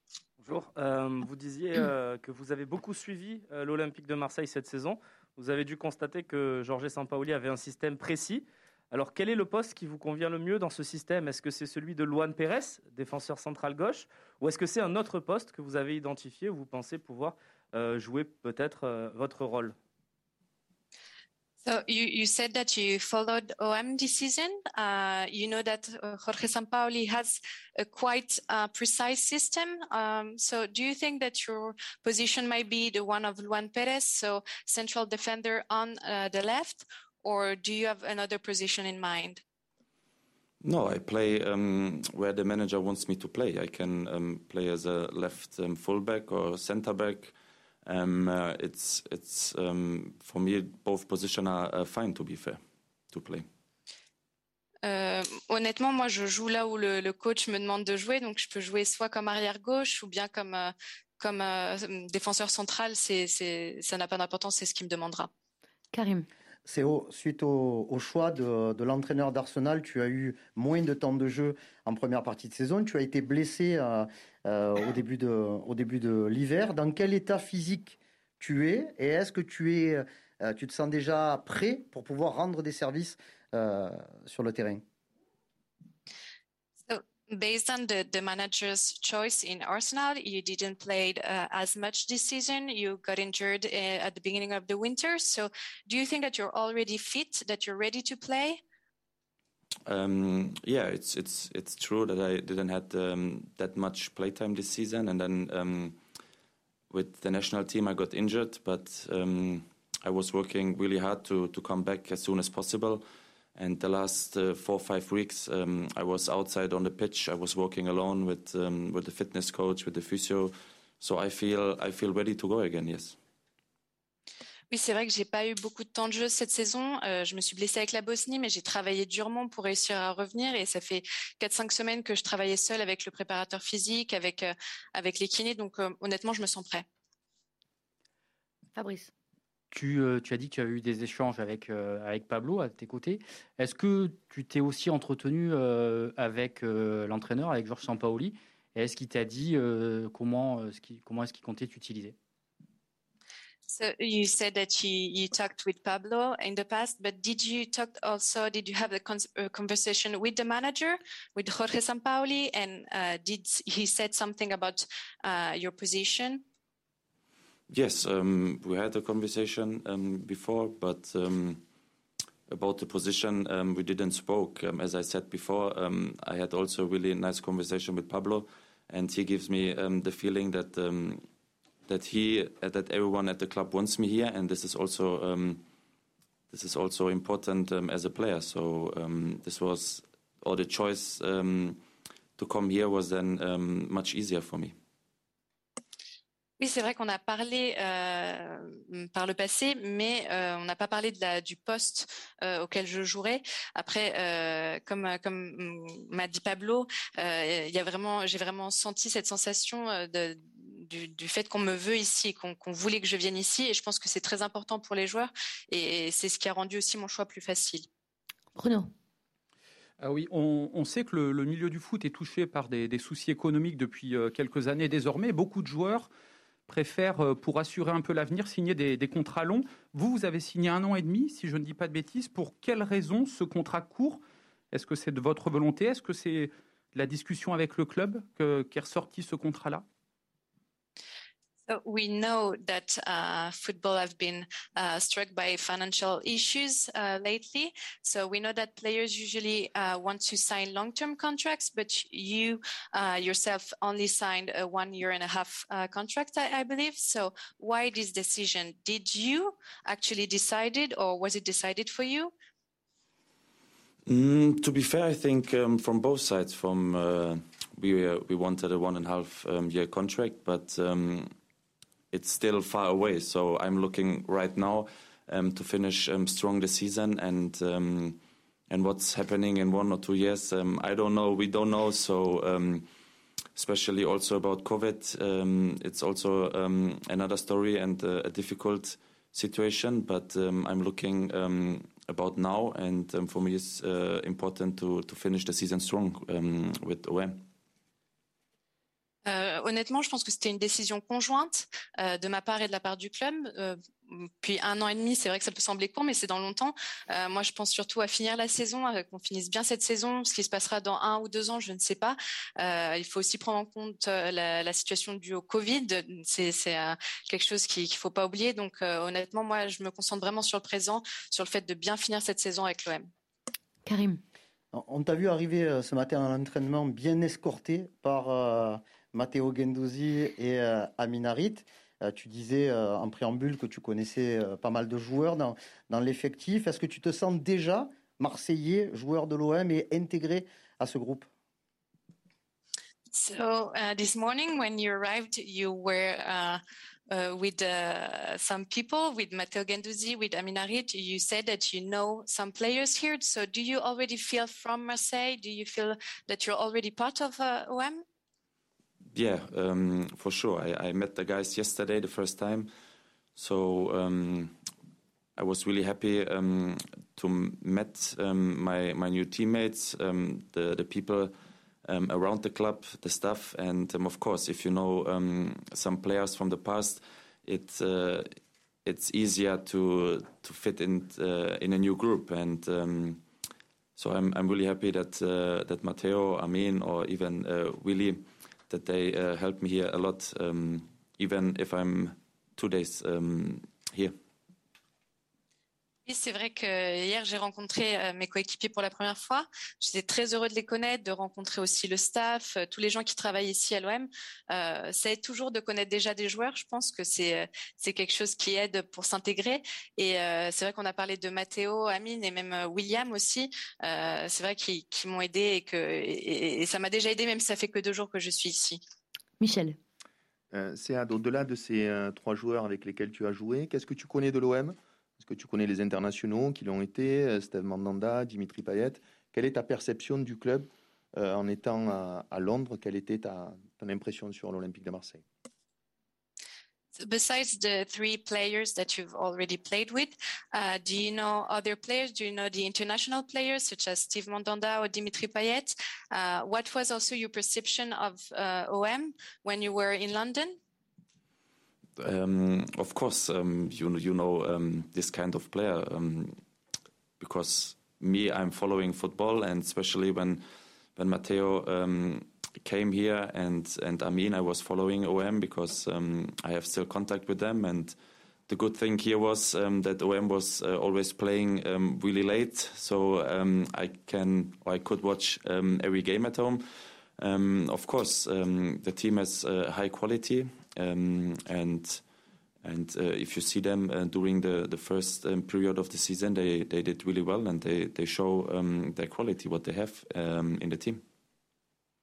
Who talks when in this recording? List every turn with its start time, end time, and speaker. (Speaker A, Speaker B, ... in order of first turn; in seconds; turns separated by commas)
Speaker A: 0.4-19.8, Speaker B: 21.6-39.4, Speaker C: 40.6-47.3, Speaker C: 47.9-52.6, Speaker C: 53.1-53.5, Speaker B: 54.8-65.3, Speaker D: 65.9-66.3, Speaker E: 66.7-84.8, Speaker B: 86.9-98.6, Speaker C: 99.9-106.0, Speaker C: 106.9-113.0, Speaker C: 113.6-123.2, Speaker B: 124.7-136.8, Speaker D: 138.7-139.1, Speaker F: 139.7-152.2, Speaker B: 153.7-166.4, Speaker C: 167.7-171.6, Speaker C: 172.5-181.2, Speaker C: 181.9-185.6, Speaker C: 186.5-191.8, Speaker C: 192.4-194.8, Speaker B: 196.6-217.9, Speaker D: 218.6-218.9, Speaker G: 220.0-226.1, Speaker G: 226.7-239.8, Speaker B: 241.7-262.3, Speaker C: 264.1-271.3, Speaker C: 272.1-282.9, Speaker C: 283.6-297.4, Speaker B: 299.3-323.1, Speaker D: 323.9-324.2, Speaker E: 324.7-341.3, Speaker B: 343.1-358.0, Speaker C: 359.1-362.7, Speaker C: 363.4-364.6, Speaker C: 365.4-371.3, Speaker C: 371.9-383.2, Speaker C: 384.0-394.1, Speaker B: 396.1-418.8, Speaker D: 419.4-419.8, Speaker H: 420.5-435.2, Speaker B: 437.0-450.6, Speaker C: 452.0-456.4, Speaker C: 457.2-460.4, Speaker C: 461.0-468.0, Speaker C: 468.5-476.7, Speaker C: 477.2-482.0, Speaker C: 482.6-491.0